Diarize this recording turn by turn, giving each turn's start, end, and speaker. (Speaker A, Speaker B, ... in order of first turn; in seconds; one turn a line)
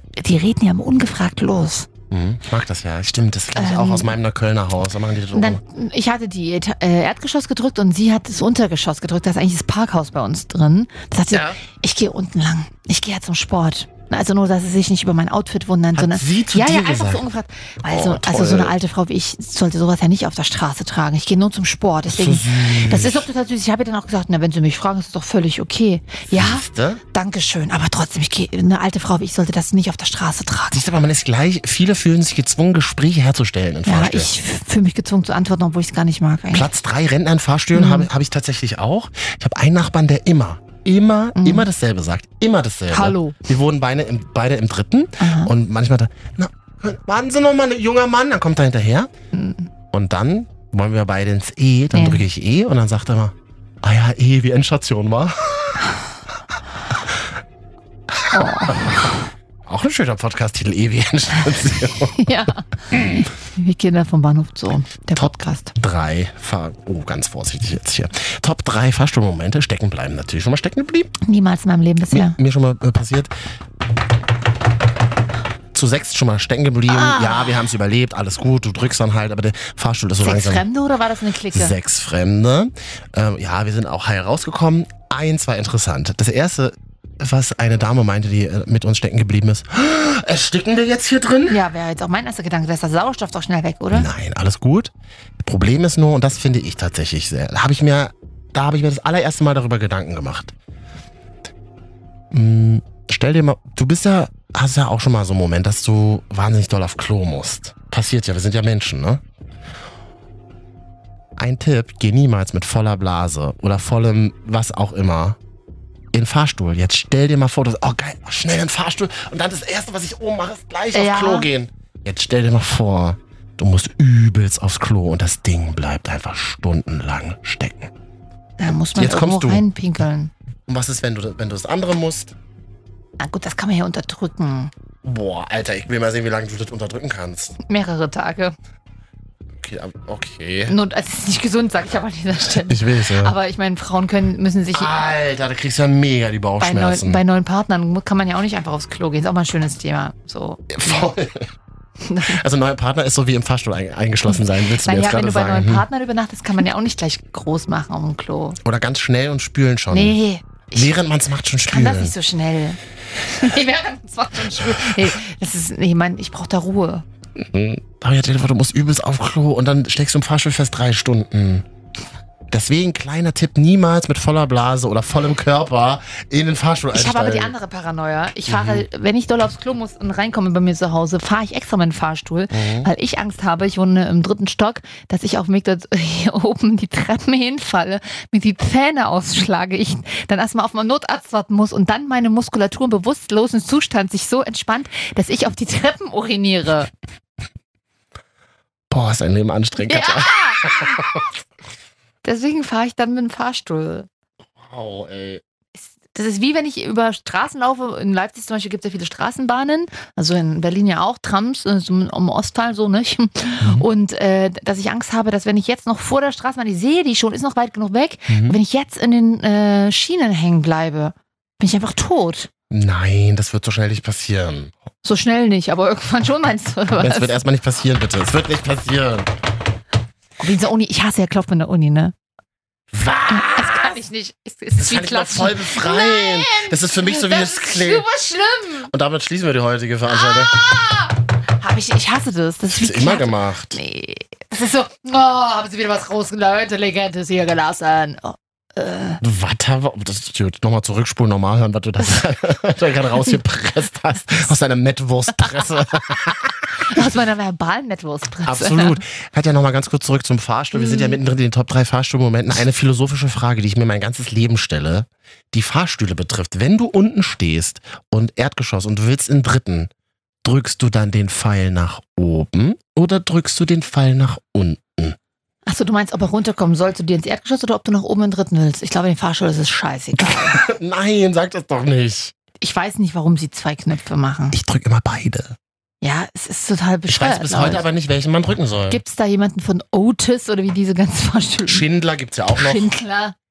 Speaker A: 0.2-1.9
Speaker B: 2.1-5.6
Speaker A: 3.5-4.1
Speaker A: 5.3-30.8
Speaker B: 11.3-11.6
Speaker B: 15.9-17.2
Speaker B: 17.8-18.7
Speaker B: 22.1-23.3
Speaker B: 26.3-27.0
Speaker B: 30.7-34.3
Speaker A: 33.9-36.7
Speaker B: 36.5-49.1
Speaker A: 37.7-38.1
Speaker A: 41.4-41.7
Speaker A: 42.9-43.4
Speaker A: 45.2-45.5
Speaker A: 49.3-49.7
Speaker B: 49.9-55.8
Speaker A: 51.9-52.2
Speaker B: 58.2-59.0
Speaker A: 58.3-59.2
Speaker B: 59.6-62.3
Speaker A: 62.2-65.7
Speaker B: 65.2-71.1
Speaker A: 71.2-72.4
Speaker B: 72.1-73.3
Speaker B: 75.7-80.6
Speaker A: 76.9-77.6
Speaker A: 80.2-81.7
Speaker B: 81.5-91.6
Speaker A: 91.5-94.1
Speaker B: 93.9-94.9
Speaker B: 95.4-100.5
Speaker B: 102.3-109.2
Speaker B: 111.4-115.4
Speaker B: 116.1-127.9
Speaker A: 120.9-121.5
Speaker A: 128.6-130.3
Speaker B: 128.9-129.7
Speaker B: 130.7-132.3
Speaker A: 133.2-134.7
Speaker B: 135.0-137.6
Speaker A: 137.6-138.5
Speaker B: 139.5-140.8
Speaker A: 140.7-144.9
Speaker B: 142.7-143.3
Speaker B: 144.7-147.2
Speaker A: 146.6-151.1
Speaker B: 150.7-151.5
Speaker A: 152.0-152.4
Speaker B: 152.2-155.8
Speaker A: 154.4-158.6
Speaker B: 158.6-160.2
Speaker A: 159.9-160.9
Speaker B: 160.7-162.1
Speaker A: 161.7-167.0
Speaker B: 167.4-171.7
Speaker B: 172.5-177.5
Speaker A: 176.9-196.9
Speaker B: 178.5-178.8
Speaker B: 182.5-182.9
Speaker B: 198.9-201.3
Speaker A: 199.9-201.1
Speaker A: 202.2-204.1
Speaker B: 204.6-205.4
Speaker A: 205.8-222.5
Speaker B: 213.6-213.9
Speaker B: 218.3-218.6
Speaker B: 222.7-224.7
Speaker A: 225.0-227.4
Speaker B: 227.0-229.3
Speaker A: 230.4-232.1
Speaker B: 232.9-233.9
Speaker A: 233.3-238.9
Speaker B: 234.8-238.0
Speaker B: 238.9-240.6
Speaker A: 240.1-249.2
Speaker B: 242.7-243.8
Speaker B: 249.2-256.7
Speaker A: 256.8-259.0
Speaker B: 258.4-269.9
Speaker A: 260.7-261.2
Speaker B: 270.4-275.2
Speaker A: 275.6-280.6
Speaker B: 280.2-282.3
Speaker A: 282.6-284.6
Speaker B: 284.5-285.6
Speaker A: 286.0-287.8
Speaker B: 287.1-289.0
Speaker A: 288.9-291.8
Speaker B: 291.6-292.9
Speaker A: 292.6-293.4